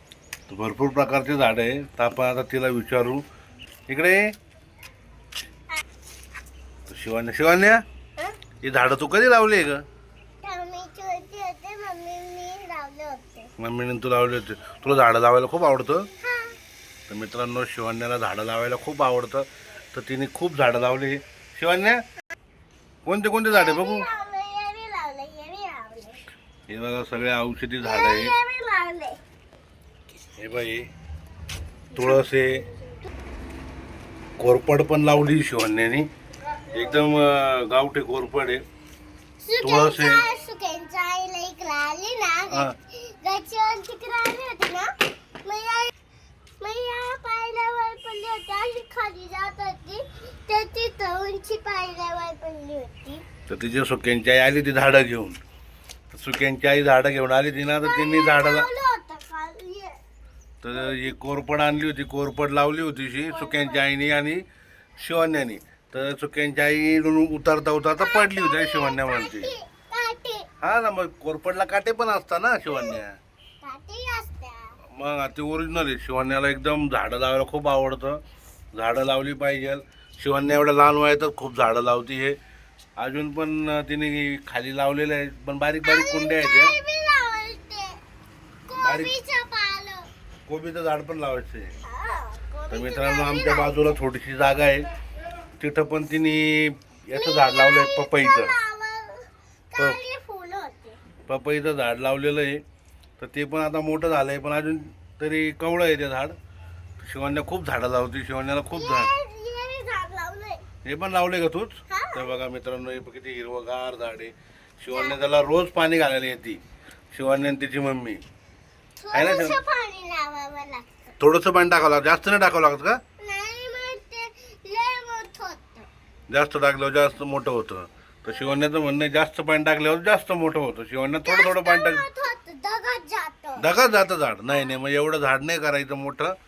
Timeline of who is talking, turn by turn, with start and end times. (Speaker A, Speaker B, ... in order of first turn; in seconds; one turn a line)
Speaker A: 0.5-3.2
Speaker A: 3.9-4.2
Speaker A: 6.9-7.8
Speaker A: 8.6-9.8
Speaker B: 10.4-13.5
Speaker A: 13.6-16.1
Speaker B: 16.2-16.6
Speaker A: 17.1-22.0
Speaker A: 23.1-24.1
Speaker B: 23.5-26.2
Speaker A: 26.7-28.3
Speaker B: 27.8-29.2
Speaker A: 30.4-30.9
Speaker A: 31.9-32.6
Speaker B: 31.9-32.2
Speaker A: 34.4-36.1
Speaker A: 36.7-38.6
Speaker B: 39.4-44.9
Speaker A: 39.6-40.2
Speaker B: 45.4-45.9
Speaker B: 46.6-53.2
Speaker A: 53.5-55.4
Speaker A: 56.1-58.7
Speaker B: 57.8-60.0
Speaker A: 60.6-64.4
Speaker B: 60.7-61.1
Speaker B: 63.3-63.8
Speaker A: 65.0-69.5
Speaker B: 68.0-70.5
Speaker A: 70.6-73.1
Speaker B: 72.7-73.0
Speaker B: 73.6-74.7
Speaker A: 75.0-78.2
Speaker A: 78.7-82.3
Speaker A: 83.0-86.7
Speaker B: 85.8-88.0
Speaker B: 88.7-90.1
Speaker A: 88.8-89.1
Speaker A: 90.5-91.7
Speaker B: 91.8-93.9
Speaker A: 92.7-94.9
Speaker A: 95.6-98.5
Speaker B: 97.1-101.0
Speaker A: 101.2-102.6
Speaker A: 103.2-106.3
Speaker A: 107.0-109.1
Speaker B: 108.7-110.6
Speaker A: 110.8-116.6
Speaker B: 111.9-112.3
Speaker B: 114.9-115.2
Speaker A: 117.1-118.2
Speaker B: 119.0-121.1
Speaker A: 119.1-119.6
Speaker A: 121.2-123.0
Speaker B: 123.2-125.9
Speaker A: 126.3-132.0
Speaker B: 131.2-133.7
Speaker A: 133.6-136.3
Speaker B: 134.5-134.8